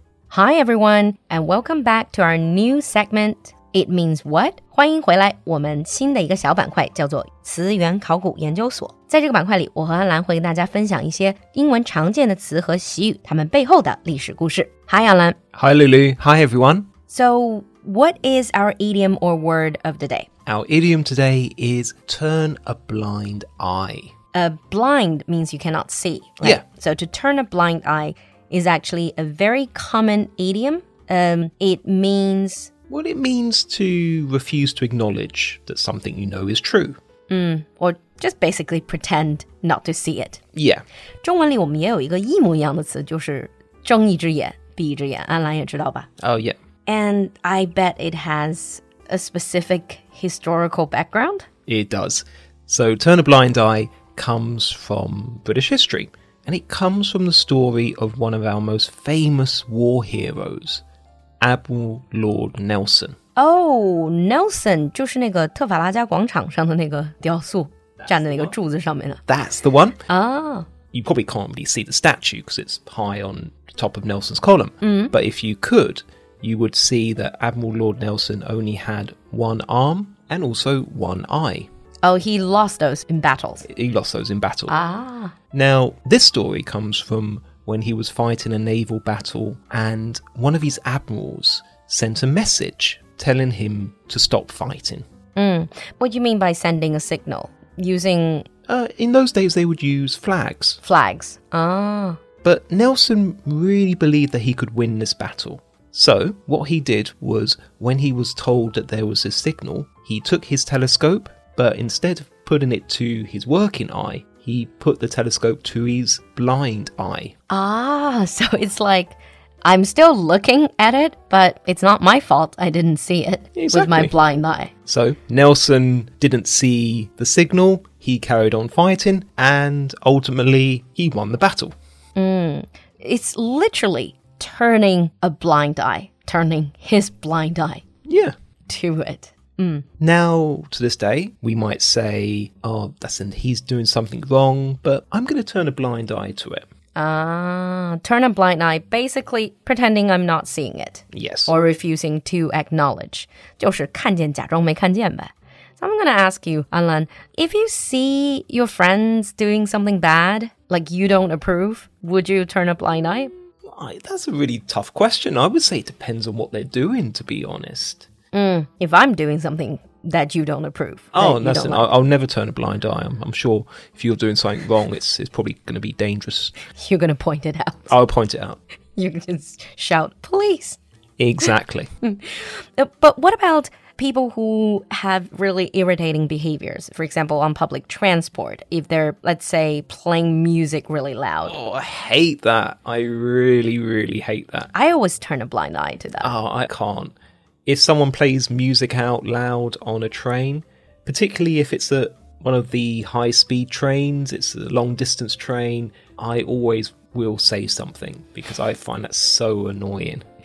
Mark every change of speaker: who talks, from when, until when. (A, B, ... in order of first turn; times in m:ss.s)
0:00.3-0:15.4 A
0:15.6-0:16.9 B
0:17.1-0:20.3 A
0:20.5-0:24.1 B
0:24.3-0:32.7 A
0:32.9-0:37.0 B
0:37.3-0:40.4 A
0:40.6-0:40.8 B
0:41.2-0:46.1 A
0:46.2-0:46.6 B
0:46.9-0:51.5 A
0:51.7-1:00.8 B
1:01.4-1:03.2 B
1:03.4-1:09.2 A
1:08.0-1:08.5 B
1:09.3-1:10.0 B
1:10.1-1:10.7 A
1:10.9-1:21.7 B
1:14.8-1:15.1 A
1:22.0-1:23.7 A
1:23.7-1:24.8 B
1:24.7-1:25.3 A
1:25.5-1:35.0 B
1:35.4-1:38.5 A
1:38.7-1:40.8 B
1:40.8-1:42.2 A
1:42.4-1:57.3 B
1:57.5-2:04.7 A
2:03.6-2:04.1 B
2:04.9-2:11.7 B
2:12.2-2:17.8 A
2:18.1-2:18.3 B
2:18.7-2:19.8 A
2:20.0-2:26.6 B
2:27.0-2:43.3 A
2:31.1-2:31.5 B
2:43.7-2:48.1 B
2:48.3-2:51.9 A
2:51.1-2:56.6 B
2:56.7-2:57.9 A
2:57.9-2:58.6 B
2:59.0-3:00.8 A
3:01.2-3:01.9 B
3:02.0-3:11.6 A
3:11.5-3:14.7 B
3:14.7-3:16.3 A
3:16.2-3:17.2 B
3:17.7-3:30.2 B